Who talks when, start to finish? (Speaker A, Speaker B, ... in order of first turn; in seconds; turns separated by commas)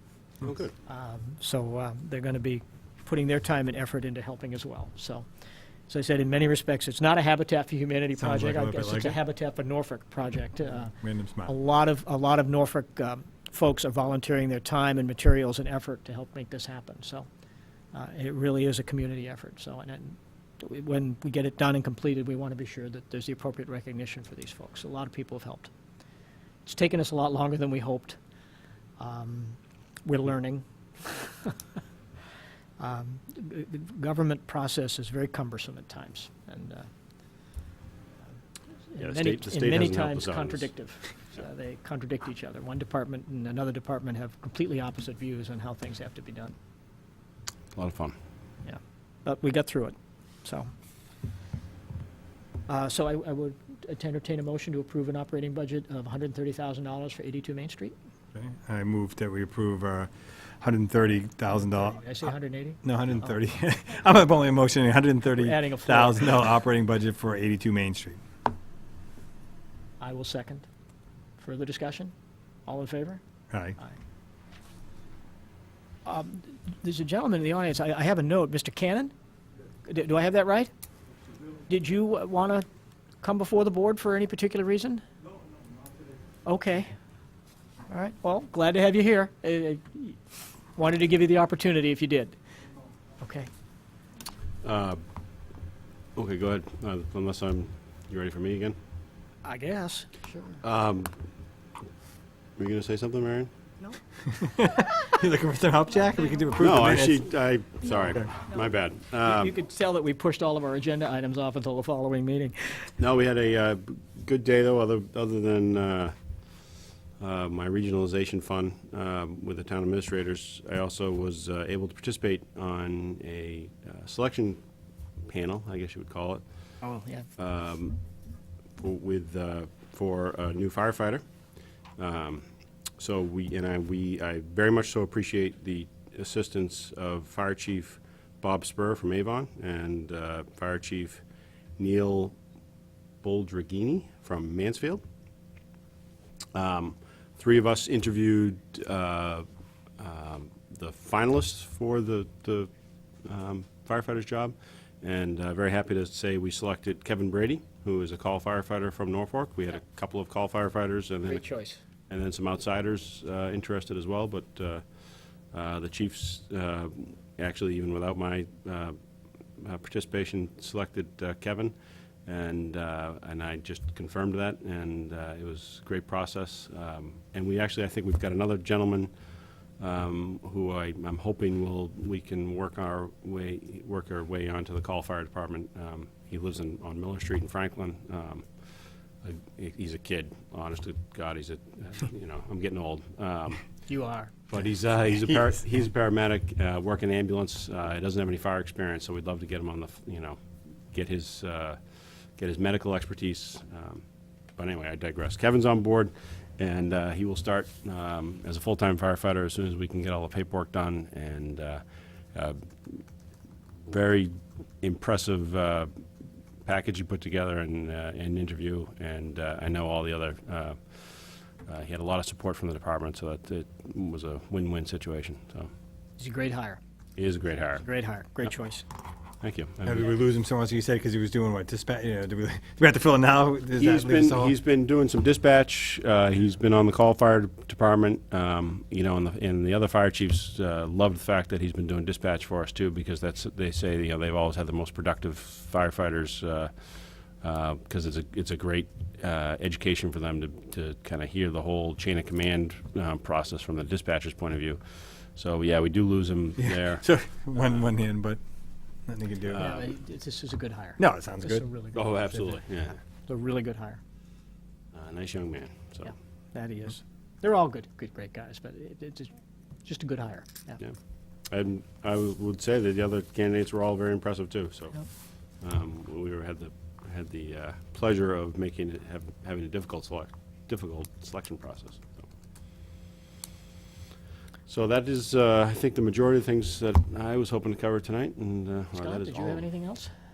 Speaker A: 0.4-0.7, Speaker B: 0.8-5.3, Speaker B: 5.9-10.9, Speaker C: 8.2-9.2, Speaker C: 10.7-11.5, Speaker B: 11.4-17.3, Speaker B: 17.9-25.7, Speaker B: 26.6-28.2, Speaker B: 29.0-31.6, Speaker B: 32.8-36.9, Speaker B: 38.9-46.5, Speaker A: 39.0-40.7, Speaker A: 47.7-48.1, Speaker B: 48.6-50.7, Speaker B: 52.7-57.9, Speaker C: 58.3-62.3, Speaker B: 61.8-62.8, Speaker C: 62.8-68.2, Speaker B: 65.3-66.4, Speaker B: 70.0-70.7, Speaker B: 71.4-72.1, Speaker B: 72.7-73.2, Speaker C: 73.5-73.8, Speaker B: 76.0-79.1, Speaker B: 79.8-80.7, Speaker B: 81.7-82.7, Speaker B: 83.2-85.0, Speaker B: 86.4-86.9, Speaker B: 87.9-92.4, Speaker B: 93.2-93.5, Speaker A: 94.6-95.0, Speaker A: 96.2-98.8, Speaker B: 99.4-100.6, Speaker A: 100.6-101.1, Speaker A: 102.6-103.5, Speaker C: 104.2-107.3, Speaker A: 106.6-109.5, Speaker B: 109.2-112.9, Speaker A: 113.0-116.1, Speaker A: 117.2-124.6, Speaker A: 125.3-126.4, Speaker B: 126.8-127.3, Speaker A: 127.4-128.0, Speaker A: 128.8-131.2, Speaker A: 132.0-132.4, Speaker A: 133.0-141.2, Speaker A: 141.8-142.3, Speaker A: 143.2-145.0, Speaker A: 146.5-149.4, Speaker A: 150.0-152.7, Speaker A: 153.2-161.5, Speaker B: 161.3-161.8, Speaker A: 162.1-164.8, Speaker A: 165.5-168.9, Speaker A: 169.6-171.7, Speaker A: 172.2-179.1, Speaker A: 179.8-193.9, Speaker B: 193.8-194.3, Speaker A: 194.5-201.8, Speaker A: 202.3-204.0, Speaker A: 204.6-213.1, Speaker A: 213.9-215.9, Speaker A: 216.6-225.7, Speaker B: 226.2-226.8, Speaker A: 227.2-227.9, Speaker B: 227.8-228.8, Speaker A: 229.4-230.0, Speaker C: 229.8-234.5, Speaker A: 233.8-257.1, Speaker C: 256.6-258.4, Speaker C: 259.1-259.6, Speaker A: 259.5-259.9, Speaker B: 259.6-262.1, Speaker C: 261.0-261.6, Speaker A: 261.9-263.0, Speaker B: 263.2-264.0, Speaker A: 264.9-266.1, Speaker B: 266.0-270.8, Speaker A: 271.5-282.3, Speaker A: 284.7-289.7, Speaker B: 288.9-290.1